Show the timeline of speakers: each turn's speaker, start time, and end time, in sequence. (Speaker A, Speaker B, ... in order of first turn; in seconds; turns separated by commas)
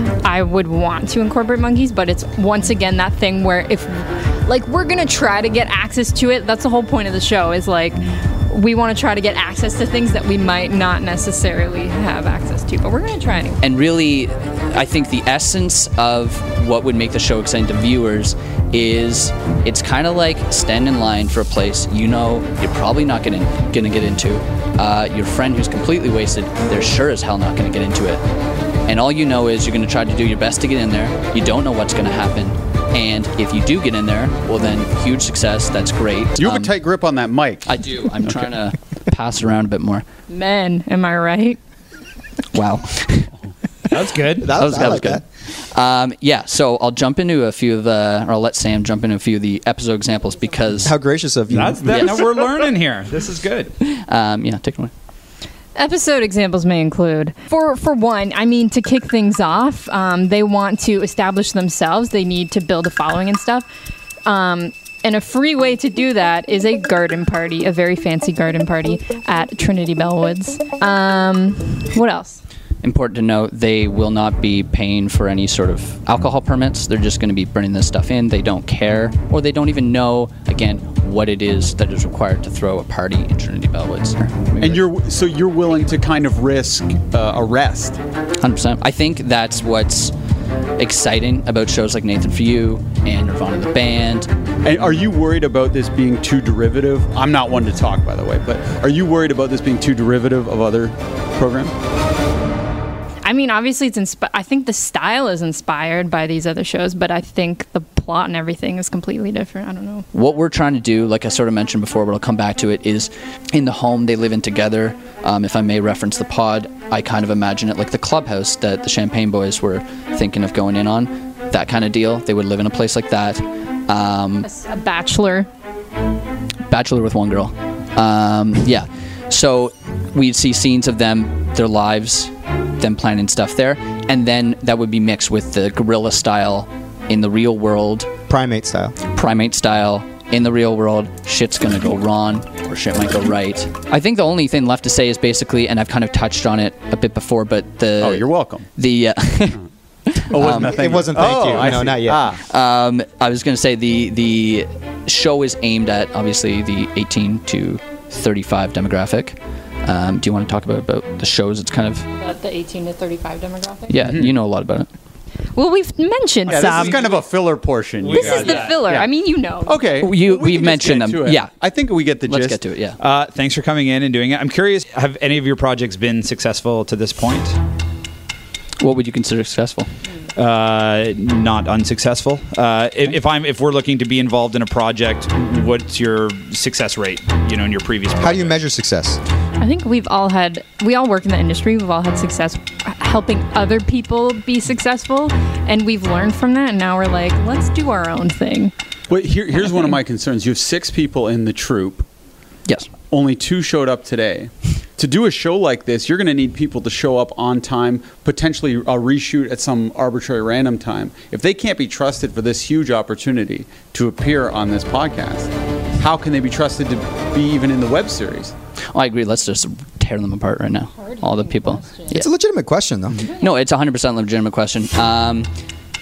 Speaker A: 0.2-13.6, Speaker B: 13.6-28.2, Speaker B: 28.9-36.8, Speaker C: 36.4-37.7, Speaker B: 37.6-40.1, Speaker A: 40.3-41.6, Speaker B: 42.5-43.3, Speaker D: 43.9-44.7, Speaker E: 44.4-45.2, Speaker B: 44.5-51.0, Speaker E: 50.8-52.2, Speaker D: 51.5-53.7, Speaker B: 51.9-52.3, Speaker B: 53.8-54.9, Speaker A: 55.8-63.7, Speaker A: 64.3-72.4, Speaker B: 72.8-84.9, Speaker C: 84.6-88.0, Speaker B: 88.4-90.1, Speaker B: 90.8-94.3, Speaker C: 94.6-101.7, Speaker A: 103.2-110.1, Speaker B: 110.1-124.5, Speaker A: 124.4-125.5, Speaker B: 126.7-138.1, Speaker E: 138.3-139.0, Speaker B: 139.1-150.7, Speaker C: 148.0-148.7, Speaker C: 150.3-152.4, Speaker E: 150.4-152.2, Speaker B: 152.5-162.1, Speaker A: 162.2-164.0, Speaker B: 163.9-164.9, Speaker C: 164.0-164.3, Speaker A: 165.6-167.0, Speaker C: 166.5-169.1, Speaker D: 166.5-167.2, Speaker D: 168.0-168.8, Speaker A: 168.1-169.8, Speaker C: 169.7-172.6, Speaker B: 170.0-171.5, Speaker B: 172.3-173.0, Speaker D: 173.0-177.6, Speaker B: 178.8-179.9, Speaker D: 180.4-188.6, Speaker E: 188.2-189.2, Speaker A: 189.6-198.7, Speaker C: 199.1-202.1, Speaker C: 203.1-218.5, Speaker B: 218.9-222.3, Speaker A: 221.0-222.1, Speaker E: 222.1-223.2, Speaker B: 223.4-225.5